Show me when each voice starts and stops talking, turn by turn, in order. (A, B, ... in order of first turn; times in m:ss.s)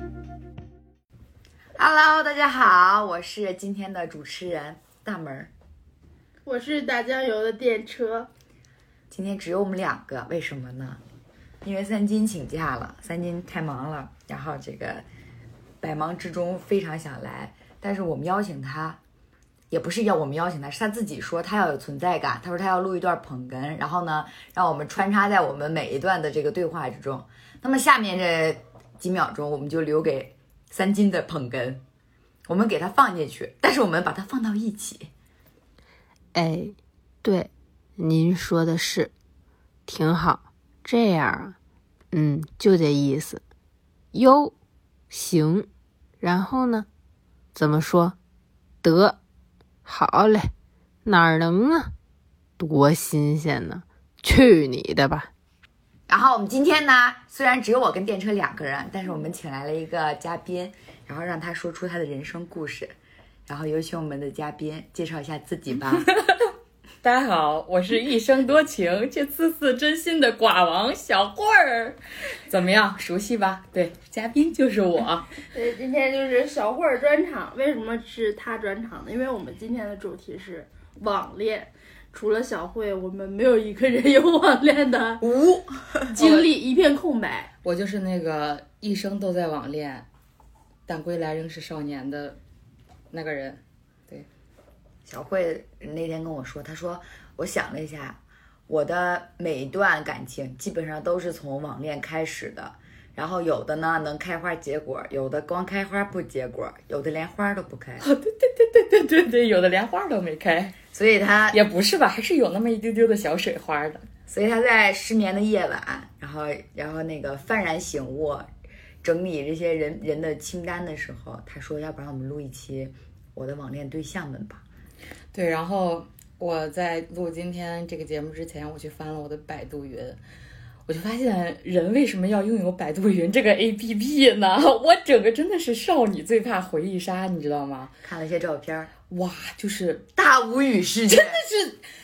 0:01.8-0:05.5 A
0:06.4-0:08.3 B
0:09.1-0:11.0 A
0:11.6-0:15.0 A
0:15.8-0:19.0 A
0:19.7-0:31.8 A
0:32.4-0:35.1 A
0:36.3-0:39.1 C
0:39.9-0:41.6 C
0:42.1-0:43.4 C
0:44.1-0:44.6 C
0:45.1-0:45.7 C
0:46.2-0:46.9 C
0:47.5-0:48.2 C
0:48.8-0:49.2 C
0:49.8-0:50.5 C
0:51.0-0:51.9 C
0:52.6-0:55.3 C
0:56.1-1:03.0 A
1:03.5-1:06.1 A
1:07.0-1:15.2 D
1:15.5-1:25.2 B
1:25.2-1:26.1 A
1:26.1-1:27.5 B
1:26.2-1:26.5 D
1:27.6-1:30.0 D
1:30.9-1:32.4 D
1:33.1-1:34.3 D
1:35.0-1:48.0 A
1:48.0-1:50.8 D
1:50.9-1:51.6 A
1:51.5-1:54.0 D
1:54.3-1:58.5 A
1:59.0-2:04.6 A
2:05.3-2:10.2 D
2:10.9-2:17.9 D
2:18.0-2:18.9 A
2:19.1-2:20.1 D
2:20.2-2:21.4 A
2:21.1-2:21.8 D